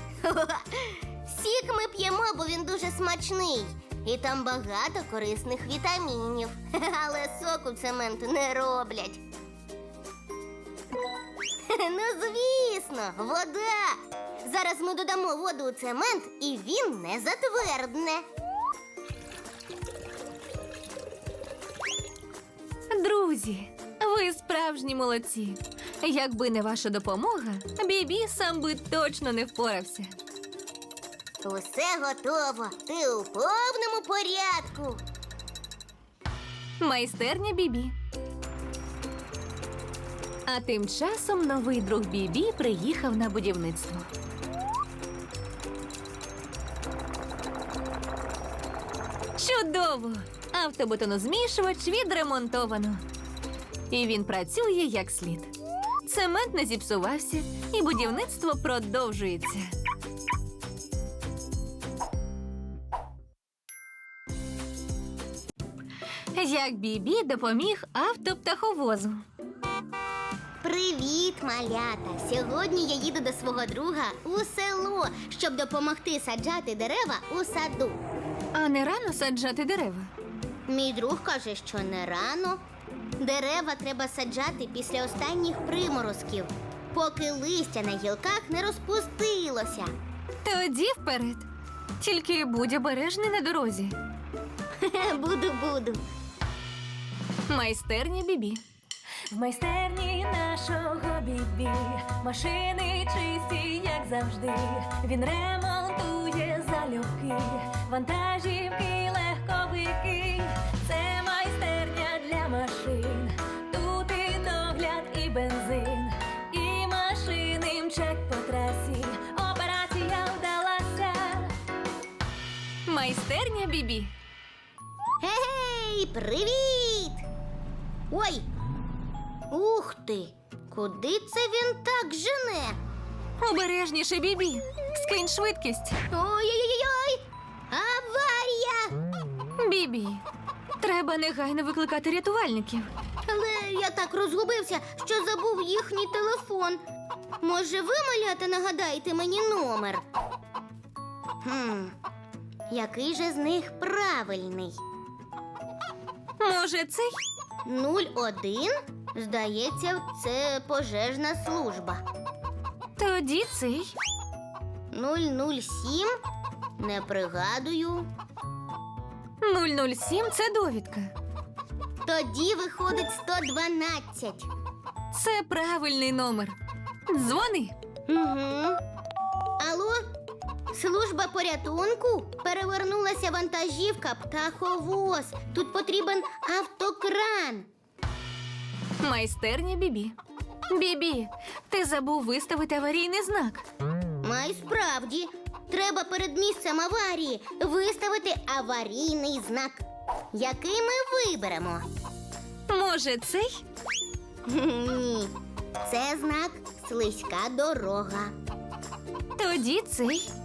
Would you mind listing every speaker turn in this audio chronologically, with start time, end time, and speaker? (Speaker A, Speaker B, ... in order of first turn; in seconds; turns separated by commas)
Speaker A: 0.2-9.2, Speaker A: 11.7-18.2, Speaker B: 22.9-29.4, Speaker C: 28.2-30.0, Speaker A: 31.4-35.0, Speaker B: 36.8-37.9, Speaker B: 40.5-44.1, Speaker C: 49.4-49.7, Speaker B: 49.4-53.0, Speaker B: 53.9-55.5, Speaker C: 56.1-57.3, Speaker B: 56.1-59.6, Speaker C: 58.0-59.1, Speaker B: 66.3-67.8, Speaker C: 67.0-69.2, Speaker A: 70.6-78.0, Speaker B: 78.6-79.6, Speaker C: 79.0-80.1, Speaker A: 80.7-82.6, Speaker A: 83.2-89.9, Speaker B: 90.5-91.4, Speaker B: 92.0-94.0, Speaker A: 94.8-96.0, Speaker B: 97.5-98.6, Speaker C: 99.3-121.5, Speaker B: 122.9-124.1, Speaker A: 125.2-127.2, Speaker A: 128.1-128.5, Speaker A: 129.5-132.8, Speaker B: 133.4-135.9, Speaker C: 135.0-135.6, Speaker A: 136.1-139.0, Speaker B: 139.6-140.2, Speaker B: 140.8-142.9, Speaker C: 142.0-142.7, Speaker A: 143.3-146.8, Speaker A: 147.4-150.0, Speaker A: 151.4-151.9, Speaker A: 152.7-154.8, Speaker B: 156.4-157.1, Speaker A: 157.7-162.0, Speaker B: 163.0-163.8, Speaker C: 163.2-163.6, Speaker A: 164.9-166.1, Speaker A: 166.8-168.1, Speaker B: 169.4-171.1, Speaker A: 172.1-174.5, Speaker B: 175.1-176.6, Speaker B: 177.2-177.6, Speaker C: 177.3-177.7, Speaker A: 178.1-178.8, Speaker A: 179.6-180.0, Speaker A: 180.7-187.7, Speaker B: 189.0-190.1, Speaker B: 190.7-193.6, Speaker C: 192.4-193.3, Speaker A: 194.2-201.9, Speaker B: 202.7-203.5, Speaker C: 202.9-203.4, Speaker A: 204.5-205.3, Speaker A: 205.8-208.3, Speaker B: 209.4-210.2